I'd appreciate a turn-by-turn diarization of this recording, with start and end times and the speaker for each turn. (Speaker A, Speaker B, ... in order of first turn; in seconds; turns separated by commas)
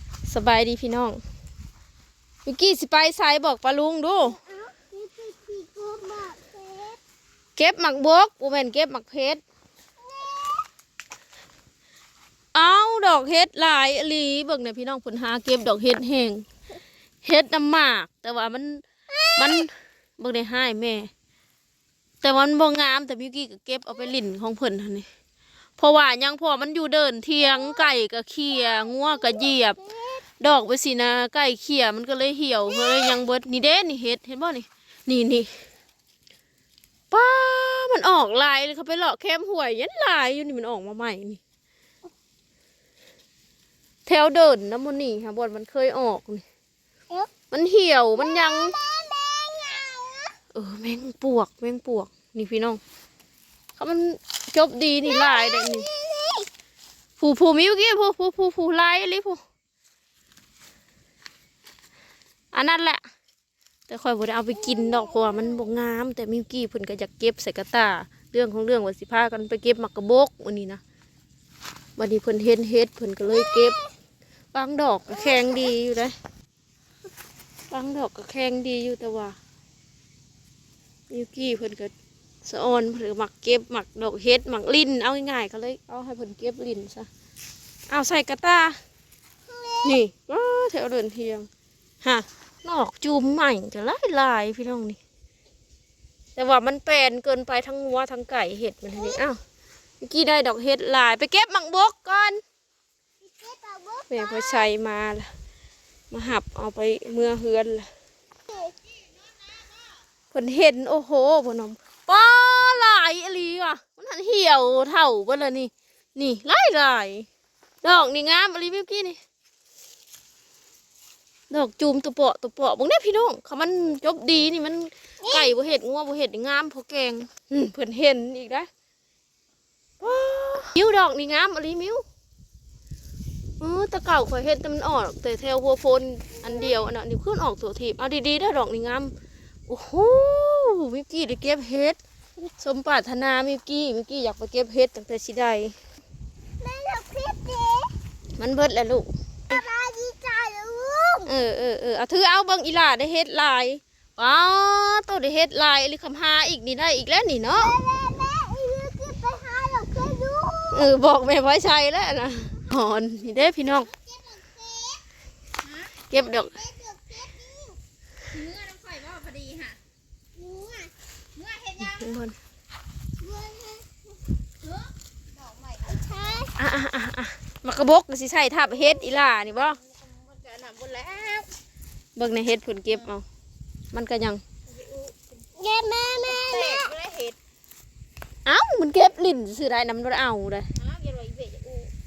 Speaker A: 0.2-1.2, Speaker A: 2.5-4.4, Speaker B: 4.3-7.0, Speaker A: 7.5-9.4, Speaker B: 10.0-10.7, Speaker A: 12.5-16.4, Speaker A: 17.2-21.1, Speaker B: 19.1-19.6, Speaker A: 22.2-25.1, Speaker A: 25.8-29.8, Speaker B: 27.4-27.8, Speaker B: 28.7-30.2, Speaker A: 30.4-35.6, Speaker B: 32.7-33.2, Speaker A: 37.1-41.4, Speaker A: 44.0-46.4, Speaker A: 47.5-48.7, Speaker B: 48.2-50.3, Speaker A: 50.5-52.8, Speaker A: 53.8-55.9, Speaker B: 55.0-56.5, Speaker A: 57.2-59.4, Speaker A: 62.5-63.0, Speaker A: 63.9-70.8, Speaker B: 64.6-65.5, Speaker A: 72.0-73.8, Speaker B: 73.3-73.9, Speaker A: 74.5-76.2, Speaker B: 75.1-75.7, Speaker A: 77.7-79.4, Speaker A: 81.1-81.9, Speaker A: 82.4-87.1, Speaker A: 87.9-88.8, Speaker B: 89.5-90.0, Speaker A: 89.8-91.5, Speaker A: 92.0-95.0, Speaker A: 96.3-99.4, Speaker A: 100.0-102.4, Speaker B: 103.2-104.7, Speaker A: 104.1-105.3, Speaker A: 106.1-107.9, Speaker B: 108.5-109.9, Speaker A: 110.3-117.3, Speaker A: 117.8-119.2, Speaker A: 121.5-128.7, Speaker B: 125.2-125.5, Speaker A: 130.0-132.0, Speaker A: 133.6-139.1, Speaker A: 139.7-142.0, Speaker A: 142.6-145.7, Speaker B: 146.6-147.9, Speaker A: 148.4-149.6, Speaker B: 149.5-151.3, Speaker A: 151.2-157.7, Speaker B: 157.5-160.9, Speaker A: 160.7-163.9, Speaker B: 163.4-165.0, Speaker C: 165.6-165.9, Speaker A: 166.1-166.5, Speaker B: 166.2-167.8, Speaker C: 168.3-169.8, Speaker B: 170.3-170.9, Speaker C: 171.3-172.2, Speaker A: 171.8-172.3, Speaker B: 173.2-173.9, Speaker C: 174.6-176.4, Speaker B: 175.8-176.5, Speaker A: 176.6-179.8, Speaker C: 179.5-181.5, Speaker A: 182.2-183.2, Speaker C: 182.9-183.1, Speaker A: 183.9-184.4, Speaker C: 184.7-185.4, Speaker B: 185.6-186.9, Speaker C: 186.2-187.4, Speaker A: 188.4-190.7, Speaker C: 190.8-191.9